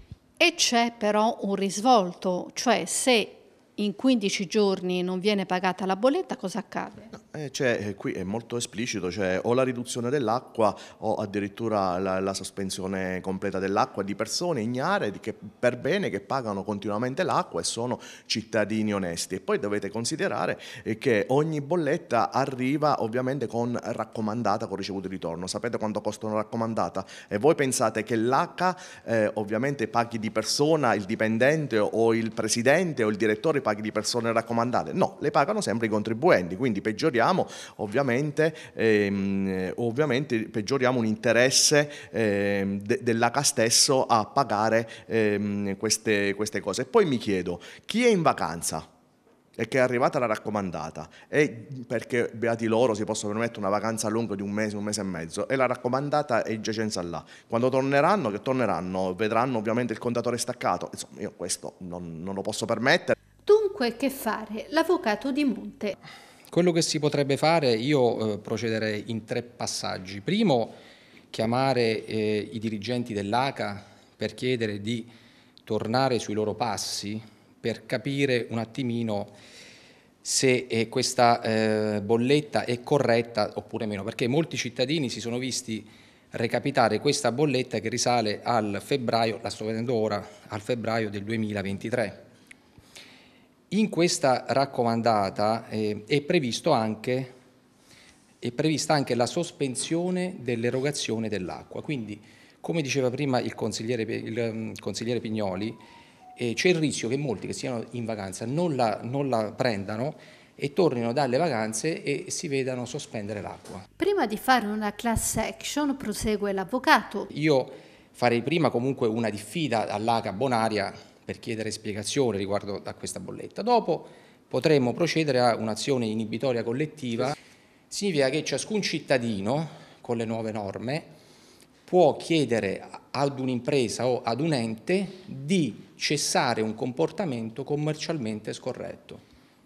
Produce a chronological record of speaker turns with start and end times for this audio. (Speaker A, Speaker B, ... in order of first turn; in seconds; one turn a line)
Speaker A: 0.4-7.1
Speaker B: 7.1-48.9
Speaker B: 49.6-63.1
Speaker A: 63.5-66.0
Speaker C: 66.5-70.8
Speaker C: 71.3-75.1
Speaker C: 75.6-79.3
Speaker C: 80.2-92.3
Speaker C: 93.7-97.3
Speaker C: 98.4-105.8
Speaker C: 106.4-113.9
Speaker A: 114.0-117.3
Speaker C: 117.3-127.4
Speaker C: 127.9-131.1
Speaker C: 131.9-139.2